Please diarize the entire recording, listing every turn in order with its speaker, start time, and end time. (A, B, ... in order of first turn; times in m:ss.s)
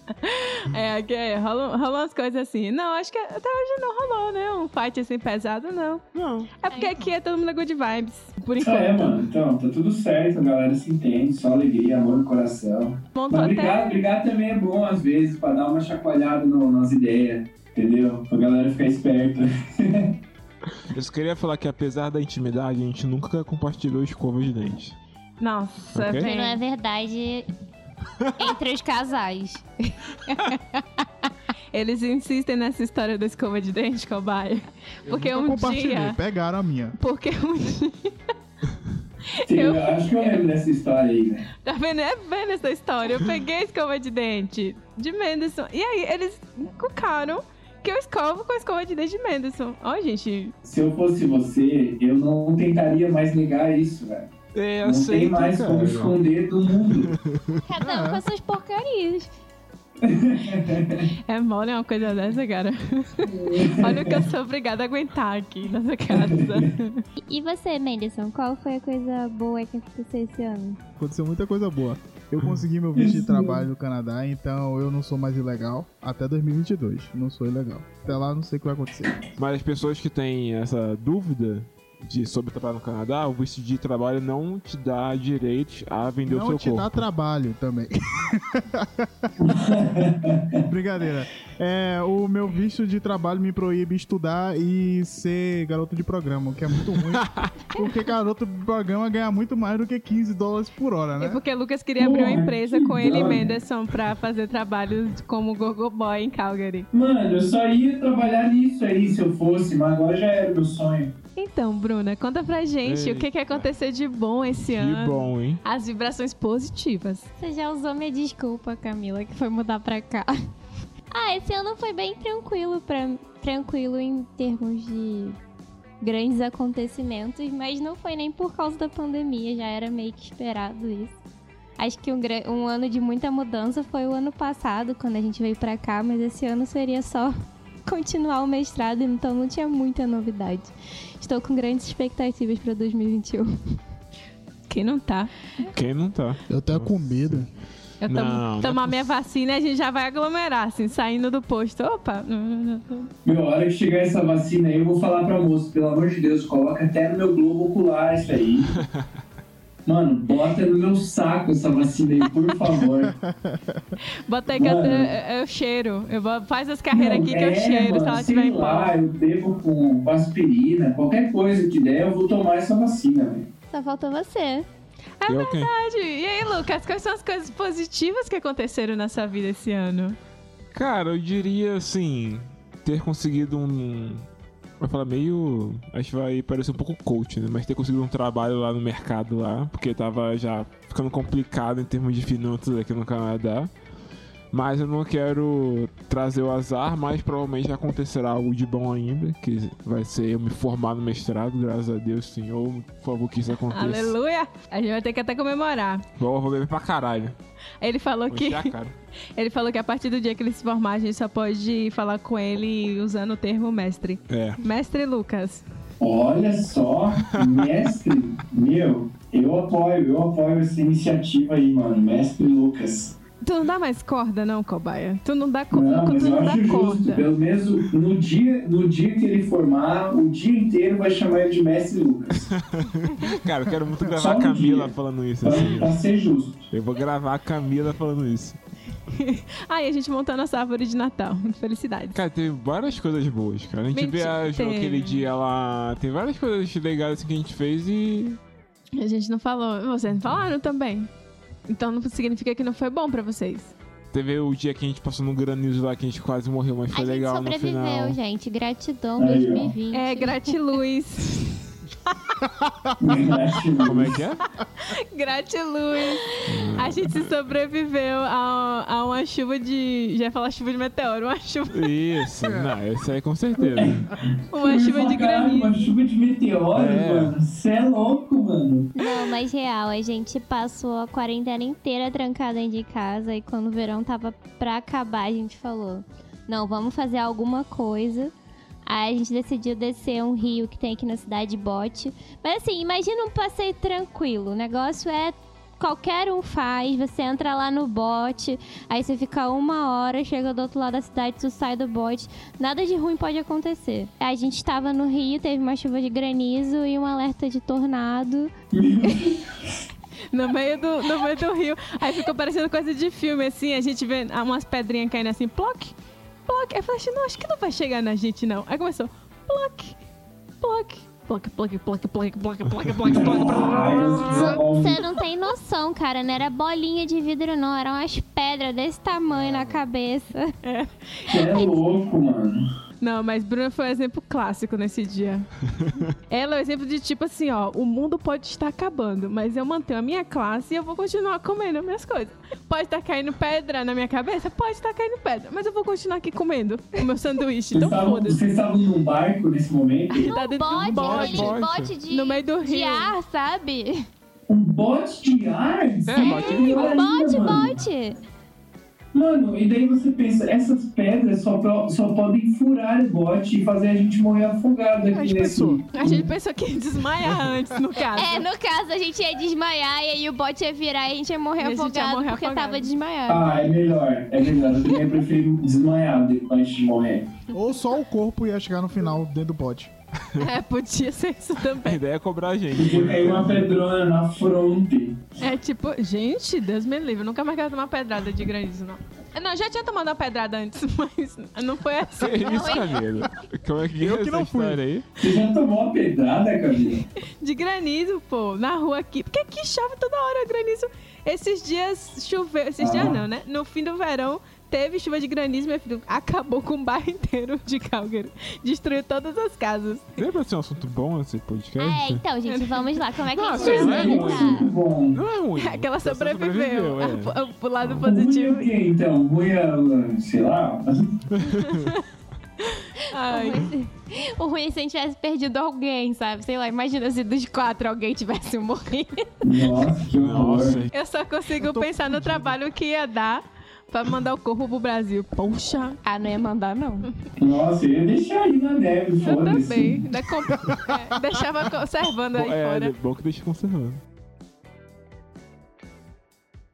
0:00.2-0:06.0 A
0:06.1-0:06.5 B
0:06.6-0:09.2 A
0:06.7-0:07.1 C
0:08.6-0:20.1 D
0:13.2-0:14.0 A
0:20.9-0:25.0 B
0:25.4-0:26.6 A
0:25.9-0:26.3 B
0:26.2-0:27.5 C
0:28.4-0:29.6 C
0:30.5-0:31.0 C
0:31.7-0:36.2 A
0:35.1-0:37.0 E
0:37.0-0:38.2 A
0:39.3-0:40.4 A
0:39.4-0:41.5 D
0:41.6-0:50.6 A
0:50.6-0:54.3 D
0:54.5-0:56.2 B
0:54.8-0:57.1 D
0:56.7-0:57.6 B
0:57.6-0:59.3 C
0:57.8-0:58.2 E
1:00.0-1:01.1 D
1:01.3-1:07.0 A
1:03.2-1:04.2 D
1:06.1-1:06.7 D
1:07.3-1:10.8 C
1:11.0-1:19.3 E
1:13.0-1:13.6 D
1:19.4-1:27.0 B
1:26.3-1:29.3 E
1:29.4-1:30.6 D
1:30.7-1:41.4 E
1:41.2-1:46.9 A
1:42.0-1:43.5 D
1:46.9-1:51.2 D
1:51.4-1:57.3 A
1:52.8-1:53.7 B
1:54.7-1:55.6 B
1:57.4-2:00.4 C
2:01.1-2:05.4 C
2:06.0-2:11.2 C
2:11.8-2:17.3 C
2:17.8-2:23.5 C
2:24.7-2:25.3 A
2:25.6-2:27.5 B
2:26.5-2:27.5 E
2:28.0-2:33.1 A
2:28.0-2:29.0 B
2:33.2-2:38.8 D
2:39.9-2:43.2 D
2:42.9-2:44.0 E
2:44.2-2:48.9 A
2:44.6-2:45.1 D
2:46.9-2:53.5 D
2:53.7-2:54.7 C
2:55.2-3:00.2 A
2:55.3-2:55.7 B
3:00.7-3:04.3 B
3:04.8-3:13.7 B
3:14.5-3:24.2 B
3:23.7-3:26.0 A
3:26.2-3:27.4 B
3:27.8-3:28.7 A
3:28.3-3:29.0 B
3:29.4-3:35.6 A
3:34.3-3:34.6 B
3:36.0-3:43.2 D
3:37.3-3:37.7 B
3:43.4-3:47.3 A
3:45.7-3:52.5 D
3:52.6-3:56.0 B
3:54.2-3:56.7 D
3:56.7-3:58.6 B
3:59.1-4:02.2 A
4:02.1-4:08.4 B
4:03.9-4:05.2 A
4:09.0-4:11.1 A
4:11.7-4:13.7 A
4:14.1-4:18.2 B
4:16.9-4:20.5 C
4:19.2-4:19.7 D
4:19.9-4:22.1 A
4:22.4-4:23.5 E
4:23.0-4:24.2 D
4:23.8-4:24.4 B
4:24.8-4:31.9 A
4:26.4-4:27.2 B
4:31.7-4:34.1 B
4:32.4-4:32.7 E
4:33.8-4:38.9 D
4:34.5-4:35.9 A
4:36.7-4:37.4 B
4:39.0-4:48.3 C
4:48.9-5:08.5 C
5:08.7-5:09.8 D
5:10.3-5:16.0 A
5:16.5-5:20.0 A
5:20.6-5:24.6 A
5:22.9-5:24.5 B
5:23.0-5:25.1 D
5:24.6-5:30.5 C
5:29.3-5:29.8 B
5:30.6-5:31.7 A
5:31.3-5:32.6 D
5:33.0-5:35.5 A
5:36.1-5:48.4 A
5:47.7-5:50.3 D
5:50.1-5:51.5 A
5:50.3-5:54.0 C
5:50.8-5:51.4 E
5:50.9-5:52.0 B
5:52.1-5:53.1 A
5:54.5-5:57.8 D
5:56.0-5:56.9 B
5:56.2-5:56.6 A
5:56.3-5:58.2 C
5:59.1-6:06.3 D
6:05.1-6:05.9 E
6:06.0-6:08.5 A
6:08.1-6:13.7 C
6:11.6-6:12.9 A
6:13.3-6:17.4 D
6:17.5-6:19.9 E
6:20.4-6:22.0 A
6:21.8-6:23.8 B
6:22.8-6:25.2 D
6:25.4-6:33.0 A
6:32.2-6:35.1 B
6:32.4-6:33.0 C
6:34.0-6:34.8 E
6:35.2-6:37.1 D
6:37.3-6:50.2 A
6:42.8-6:43.2 D
6:50.2-6:52.2 B
6:51.8-6:54.7 C
6:52.5-6:53.0 A
6:53.3-6:58.0 B
6:53.6-6:55.2 D
6:53.6-6:54.3 A
6:55.6-6:58.7 A
6:58.0-7:01.0 D
7:01.3-7:01.9 B
7:01.6-7:02.0 A
7:02.6-7:03.7 A
7:03.2-7:09.3 C
7:09.4-7:10.8 D
7:10.1-7:10.9 B
7:10.9-7:16.0 A
7:11.6-7:12.6 E
7:16.0-7:17.1 C
7:17.4-7:20.1 D
7:19.2-7:22.9 A
7:20.6-7:21.0 E
7:22.4-7:24.0 B